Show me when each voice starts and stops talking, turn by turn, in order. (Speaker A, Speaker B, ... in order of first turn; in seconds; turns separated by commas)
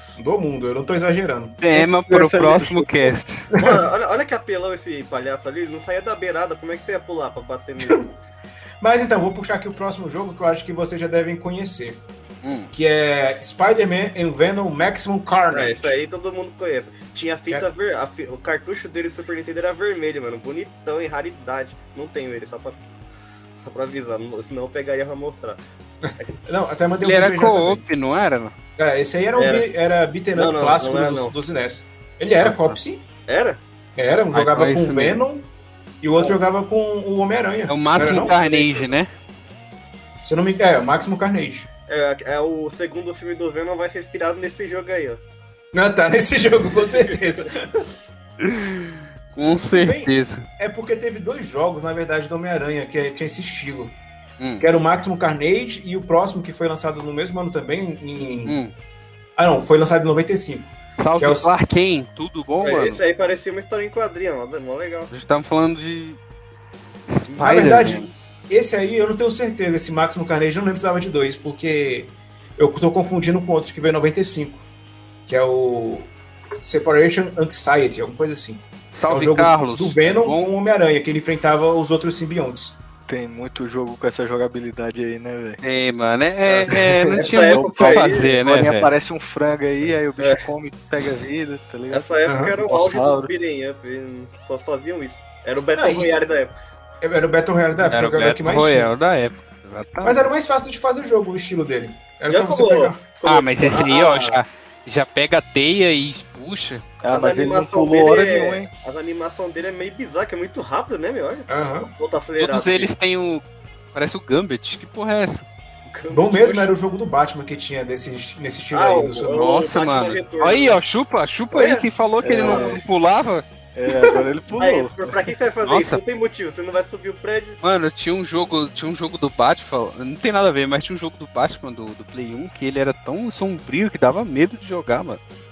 Speaker A: 0.2-1.6, Speaker B: 1.6-3.5, Speaker C: 1.7-3.1, Speaker A: 3.5-3.8, Speaker D: 3.6-8.0, Speaker A: 7.9-8.1, Speaker A: 8.8-12.0, Speaker B: 12.4-12.7, Speaker A: 12.7-16.0, Speaker D: 15.5-22.8, Speaker D: 23.6-25.6, Speaker A: 26.1-27.8, Speaker B: 27.0-28.6, Speaker A: 28.8-33.0, Speaker D: 29.4-29.7, Speaker D: 30.3-31.3, Speaker B: 32.4-32.8, Speaker D: 33.3-33.6, Speaker A: 34.0-35.5, Speaker B: 34.3-35.2, Speaker A: 36.0-38.4, Speaker B: 37.7-39.1, Speaker D: 38.2-38.8, Speaker A: 40.2-41.7, Speaker D: 41.9-45.2, Speaker A: 45.7-47.9, Speaker D: 46.6-47.5, Speaker B: 48.4-50.5, Speaker A: 49.7-54.0, Speaker B: 54.4-54.7, Speaker A: 54.6-58.6, Speaker B: 58.5-58.7, Speaker A: 59.4-61.5, Speaker B: 61.0-63.0, Speaker D: 62.6-65.1, Speaker B: 65.1-66.2, Speaker B: 67.1-68.1, Speaker A: 67.4-74.7, Speaker A: 75.3-76.1, Speaker A: 76.6-82.8, Speaker B: 78.9-80.5, Speaker C: 83.1-85.6, Speaker B: 85.6-88.9, Speaker C: 86.6-93.3, Speaker D: 87.2-88.3, Speaker D: 91.9-96.5, Speaker A: 92.3-92.5, Speaker A: 95.7-96.1, Speaker A: 97.0-98.9, Speaker B: 97.8-100.2, Speaker A: 100.0-103.0, Speaker D: 102.3-104.4, Speaker B: 103.2-106.8, Speaker C: 107.0-108.7, Speaker D: 107.1-112.9, Speaker A: 111.5-111.9, Speaker B: 112.4-115.5, Speaker D: 115.9-116.7, Speaker A: 116.1-119.6, Speaker D: 118.7-120.8, Speaker B: 119.3-123.5, Speaker D: 121.5-121.8, Speaker C: 122.2-122.8, Speaker D: 122.4-122.7, Speaker C: 123.8-125.2, Speaker D: 124.6-127.6, Speaker B: 125.6-126.0, Speaker B: 127.6-135.2